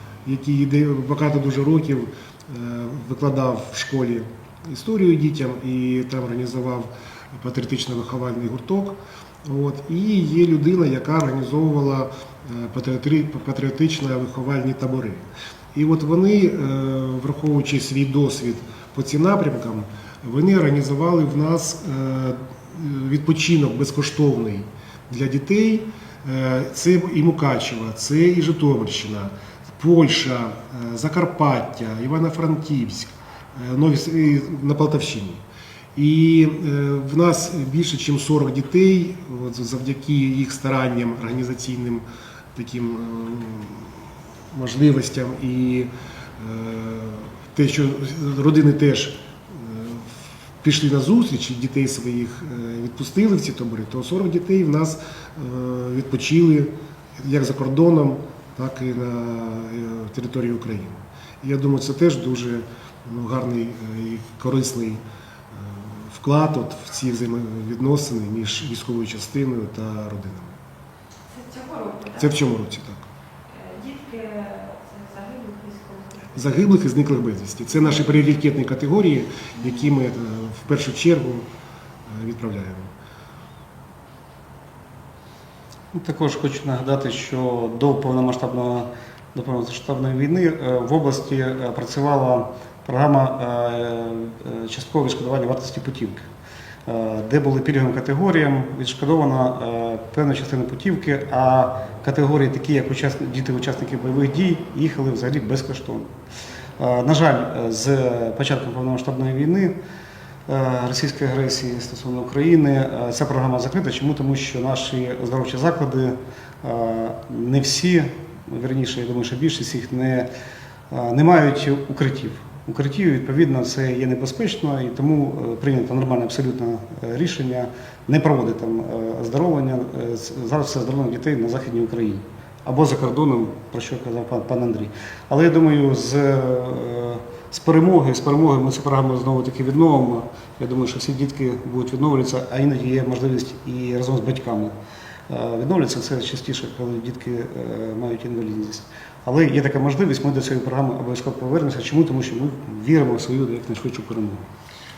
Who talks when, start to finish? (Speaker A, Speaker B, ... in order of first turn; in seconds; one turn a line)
Speaker A: 0.2-35.4
Speaker A: 36.0-43.9
Speaker A: 44.5-70.6
Speaker B: 71.3-72.4
Speaker A: 72.2-73.1
Speaker B: 73.5-76.5
Speaker A: 76.3-81.5
Speaker B: 77.8-78.1
Speaker A: 82.1-82.9
Speaker C: 85.9-96.3
Speaker C: 96.9-106.1
Speaker C: 106.8-109.7
Speaker C: 110.5-120.3
Speaker C: 120.9-144.7
Speaker C: 145.3-154.5